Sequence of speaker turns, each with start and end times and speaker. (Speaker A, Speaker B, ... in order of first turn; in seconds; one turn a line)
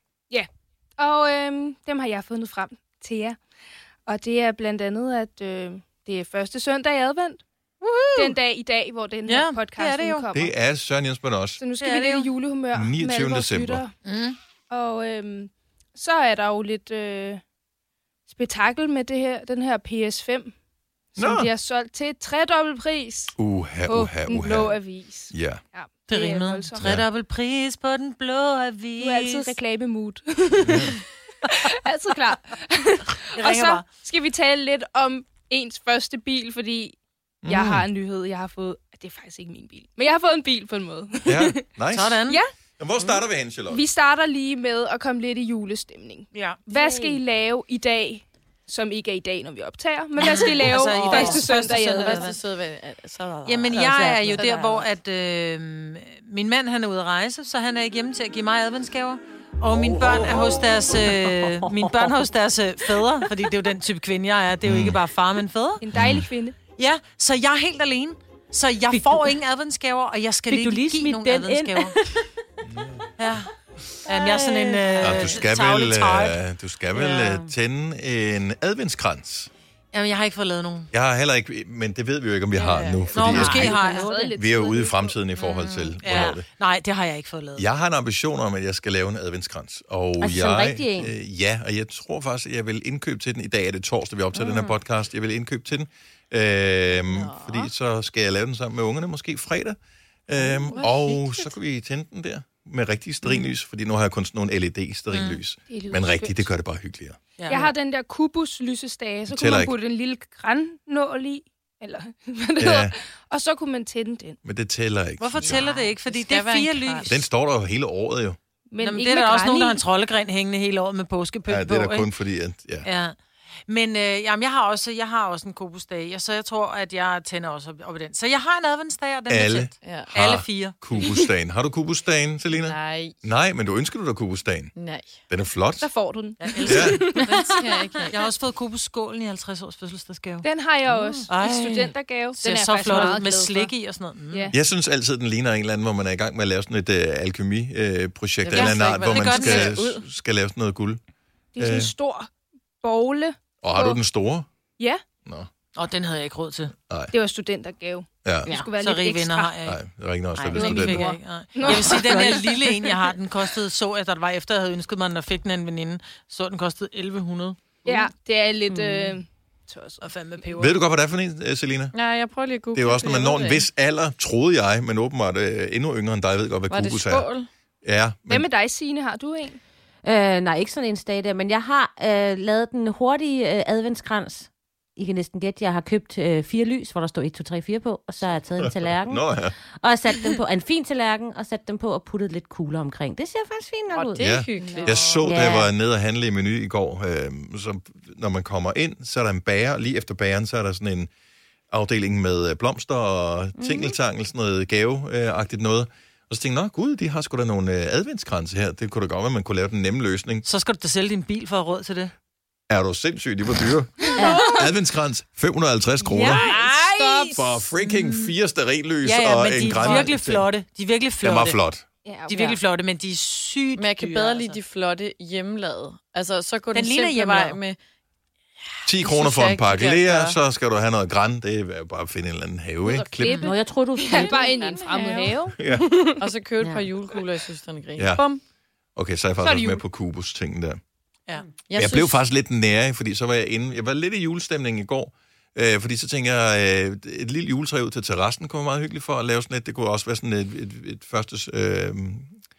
Speaker A: 0.3-3.4
Speaker A: 4.1-7.4
Speaker B: 7.8-8.4
Speaker A: 8.2-10.5
Speaker B: 9.3-10.3
Speaker C: 10.3-11.6
Speaker A: 11.6-13.9
Speaker B: 11.8-12.3
Speaker C: 12.7-13.8
Speaker B: 14.0-14.4
Speaker A: 14.7-17.4
Speaker A: 18.3-20.6
Speaker A: 21.1-23.4
Speaker C: 21.2-21.5
Speaker C: 23.4-24.8
Speaker A: 23.9-26.8
Speaker C: 25.3-25.6
Speaker B: 26.1-29.6
Speaker C: 26.8-27.1
Speaker A: 29.0-41.6
Speaker C: 30.6-31.0
Speaker B: 33.1-33.9
Speaker C: 37.4-37.9
Speaker C: 41.3-42.2
Speaker B: 41.9-42.4
Speaker C: 42.8-43.9
Speaker A: 43.7-52.3
Speaker B: 46.3-46.6
Speaker D: 46.7-47.2
Speaker B: 50.2-52.4
Speaker D: 50.7-52.2
Speaker E: 52.0-54.5
Speaker B: 53.5-65.8
Speaker D: 53.7-54.9
Speaker D: 61.0-62.2
Speaker C: 64.6-65.0
Speaker A: 65.8-66.6
Speaker C: 65.9-66.3
Speaker B: 66.8-72.0
Speaker D: 68.9-69.3
Speaker D: 70.5-72.3
Speaker C: 72.7-73.0
Speaker B: 73.2-73.5
Speaker B: 74.1-76.4
Speaker D: 74.1-75.3
Speaker C: 75.0-79.5
Speaker D: 76.9-77.5
Speaker B: 79.9-80.9
Speaker C: 80.9-83.8
Speaker E: 82.6-83.1
Speaker B: 83.1-84.1
Speaker D: 83.2-84.4
Speaker A: 83.5-85.2
Speaker C: 84.3-86.5
Speaker B: 85.4-87.7
Speaker D: 86.0-86.4
Speaker C: 87.6-107.2
Speaker D: 90.2-91.1
Speaker D: 94.3-94.8
Speaker E: 96.9-97.7
Speaker E: 100.4-101.5
Speaker B: 105.1-105.4
Speaker A: 105.7-106.5
Speaker B: 107.4-107.6
Speaker A: 107.5-114.4
Speaker C: 109.3-109.8
Speaker C: 112.6-113.0
Speaker C: 114.4-115.6
Speaker B: 115.2-117.2
Speaker E: 115.4-117.1
Speaker C: 117.1-118.4
Speaker A: 118.7-119.8
Speaker B: 118.8-122.1
Speaker C: 121.5-122.9
Speaker B: 122.8-123.2
Speaker B: 123.7-130.9
Speaker C: 129.3-134.7
Speaker E: 129.8-130.1
Speaker E: 132.5-133.2
Speaker E: 134.8-135.2
Speaker C: 135.3-135.9
Speaker A: 135.8-137.6
Speaker B: 136.4-137.2
Speaker C: 136.7-137.1
Speaker E: 137.2-138.2
Speaker B: 138.1-140.5
Speaker A: 140.4-143.7
Speaker B: 141.3-144.5
Speaker A: 144.3-144.6
Speaker C: 144.5-151.0
Speaker E: 148.4-150.0
Speaker B: 148.5-149.9
Speaker A: 149.4-149.8
Speaker A: 151.6-152.3
Speaker C: 151.6-151.9
Speaker A: 152.8-154.0
Speaker C: 153.6-154.5
Speaker C: 155.2-155.5
Speaker B: 155.8-156.7
Speaker C: 156.9-157.1
Speaker A: 157.1-159.5
Speaker C: 158.2-158.5
Speaker B: 158.8-159.8
Speaker C: 159.7-161.1
Speaker A: 160.5-162.4
Speaker B: 160.5-167.6
Speaker D: 161.7-162.7
Speaker A: 167.9-170.0
Speaker D: 168.7-169.2
Speaker B: 170.0-170.8
Speaker C: 170.6-171.9
Speaker E: 171.9-173.7
Speaker C: 172.7-177.3
Speaker E: 176.7-177.5
Speaker C: 177.8-178.5
Speaker A: 178.3-179.6
Speaker D: 180.0-194.3
Speaker C: 188.6-189.6
Speaker E: 193.9-195.5
Speaker C: 194.2-201.1
Speaker A: 194.7-195.1
Speaker D: 195.2-195.7
Speaker C: 201.7-210.4
Speaker D: 203.6-203.9
Speaker B: 210.4-212.1
Speaker C: 212.7-216.5
Speaker A: 214.2-214.7
Speaker D: 214.2-214.4
Speaker A: 216.1-217.4
Speaker B: 216.2-218.3
Speaker C: 217.3-220.5
Speaker B: 219.0-221.6
Speaker C: 221.2-221.8
Speaker A: 222.1-222.6
Speaker B: 222.3-224.6
Speaker E: 223.8-227.8
Speaker B: 226.7-227.6
Speaker C: 228.8-233.4
Speaker E: 228.9-230.4
Speaker A: 233.0-236.2
Speaker D: 233.3-235.3
Speaker E: 234.1-235.3
Speaker C: 235.6-236.0
Speaker E: 236.2-238.4
Speaker D: 236.6-236.9
Speaker C: 238.0-238.2
Speaker C: 239.0-240.8
Speaker A: 239.4-239.8
Speaker E: 241.7-242.2
Speaker C: 241.8-252.3